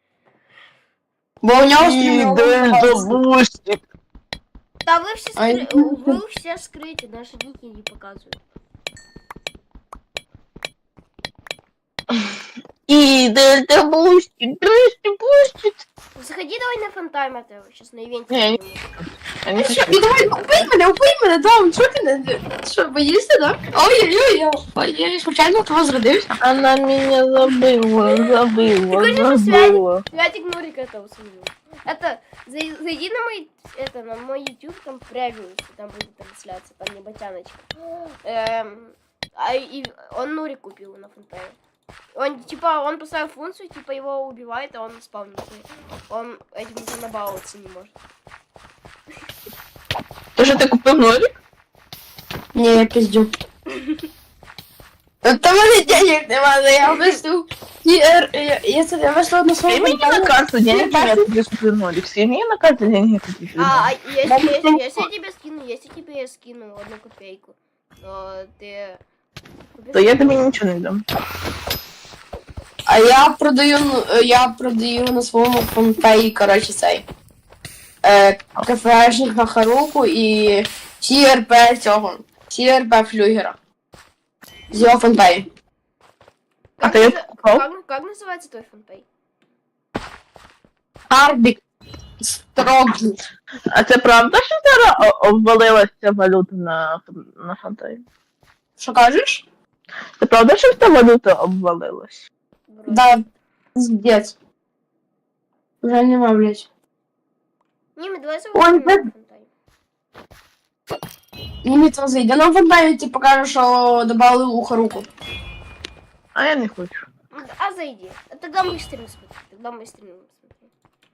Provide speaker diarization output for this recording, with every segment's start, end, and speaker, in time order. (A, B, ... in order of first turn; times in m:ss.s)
0:01.4-0:03.1 A
0:01.8-0:03.8 B
0:04.8-0:08.4 C
0:05.4-0:06.2 A
0:12.9-0:15.8 B
0:16.1-0:18.9 C
0:18.3-0:20.0 B
0:19.6-0:26.3 A
0:26.4-0:30.0 B
0:28.9-0:41.6 C
0:42.2-0:47.9 C
0:50.4-0:51.3 B
0:52.5-0:53.3 A
0:53.7-0:54.0 C
0:55.2-1:01.3 A
0:59.7-1:03.8 B
1:03.6-1:09.0 C
1:04.3-1:04.8 A
1:09.7-1:10.4 C
1:09.9-1:11.0 B
1:12.9-1:17.0 A
1:18.0-1:23.6 A
1:24.7-1:25.5 A
1:26.8-1:29.0 C
1:26.8-1:27.6 B
1:31.1-1:31.6 A
1:32.2-1:33.2 A
1:33.7-1:38.0 B
1:38.8-1:39.4 A
1:40.2-1:42.2 B
1:42.7-1:43.1 C
1:42.9-1:43.2 A
1:43.8-1:44.3 A
1:45.8-1:46.7 A
1:48.0-1:49.5 C
1:48.5-1:49.0 A
1:51.6-1:55.1 A
1:56.3-1:57.0 B
1:57.3-2:00.7 C